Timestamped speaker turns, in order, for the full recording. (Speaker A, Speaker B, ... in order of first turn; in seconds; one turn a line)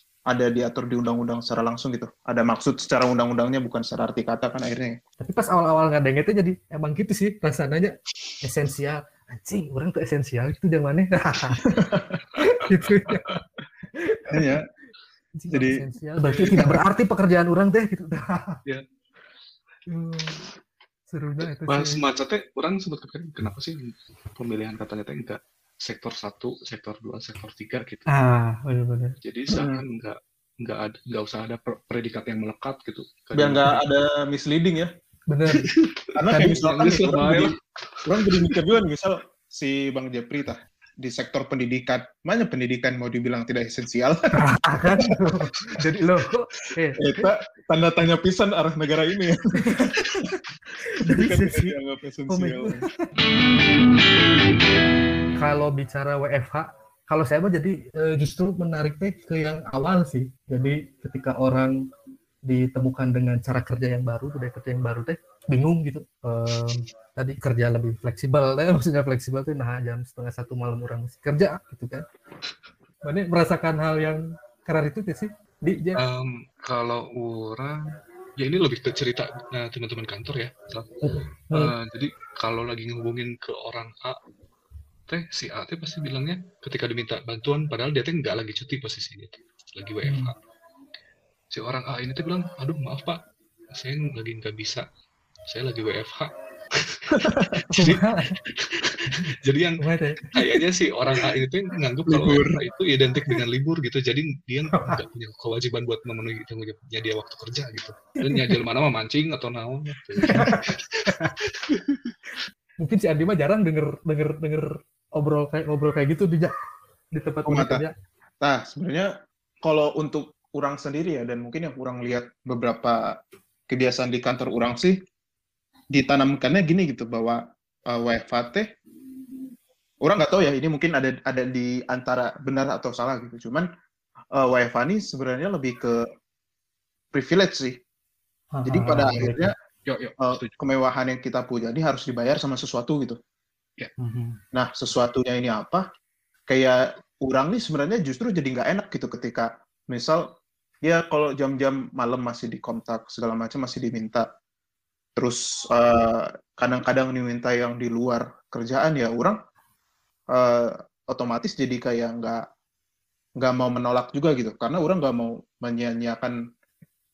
Speaker A: 0.3-5.0
Speaker B: 5.2-11.6
Speaker A: 11.6-12.2
Speaker B: 12.4-13.4
Speaker C: 12.9-13.4
Speaker B: 13.9-14.5
Speaker A: 14.3-14.6
Speaker B: 15.4-18.6
Speaker A: 15.5-15.8
Speaker C: 16.2-16.8
Speaker B: 19.9-20.4
Speaker B: 21.1-22.0
Speaker C: 21.7-28.1
Speaker B: 28.1-29.1
Speaker C: 29.2-33.8
Speaker A: 29.5-29.8
Speaker A: 33.4-34.9
Speaker B: 35.3-35.7
Speaker C: 35.5-38.6
Speaker A: 36.1-37.5
Speaker B: 36.3-37.0
Speaker A: 38.0-44.2
Speaker B: 44.4-47.3
Speaker A: 47.0-50.0
Speaker B: 51.0-51.7
Speaker A: 51.1-52.8
Speaker B: 52.3-52.8
Speaker B: 55.4-61.7
Speaker B: 62.5-72.0
Speaker B: 73.0-76.0
Speaker C: 76.0-84.2
Speaker B: 81.0-81.7
Speaker C: 85.1-90.3
Speaker B: 90.0-90.3
Speaker C: 91.5-93.2
Speaker C: 93.7-94.8
Speaker C: 95.5-112.1
Speaker A: 97.1-97.7
Speaker B: 97.7-98.3
Speaker B: 99.1-100.3
Speaker A: 102.1-102.6
Speaker B: 104.7-105.0
Speaker B: 108.2-108.5
Speaker B: 110.3-111.3
Speaker B: 112.8-116.5
Speaker B: 117.1-117.9
Speaker A: 117.5-117.8
Speaker A: 118.4-119.1
Speaker A: 119.6-123.0
Speaker A: 123.7-125.0
Speaker A: 125.9-128.6
Speaker A: 130.0-133.6
Speaker A: 134.3-135.9
Speaker A: 137.1-137.8
Speaker B: 138.5-139.5
Speaker A: 138.7-139.5
Speaker C: 139.9-140.5
Speaker A: 140.2-143.2
Speaker B: 144.0-144.4
Speaker A: 144.5-145.8
Speaker A: 146.5-150.2
Speaker A: 150.8-154.2
Speaker A: 155.2-159.4
Speaker A: 160.3-162.4
Speaker A: 163.4-166.3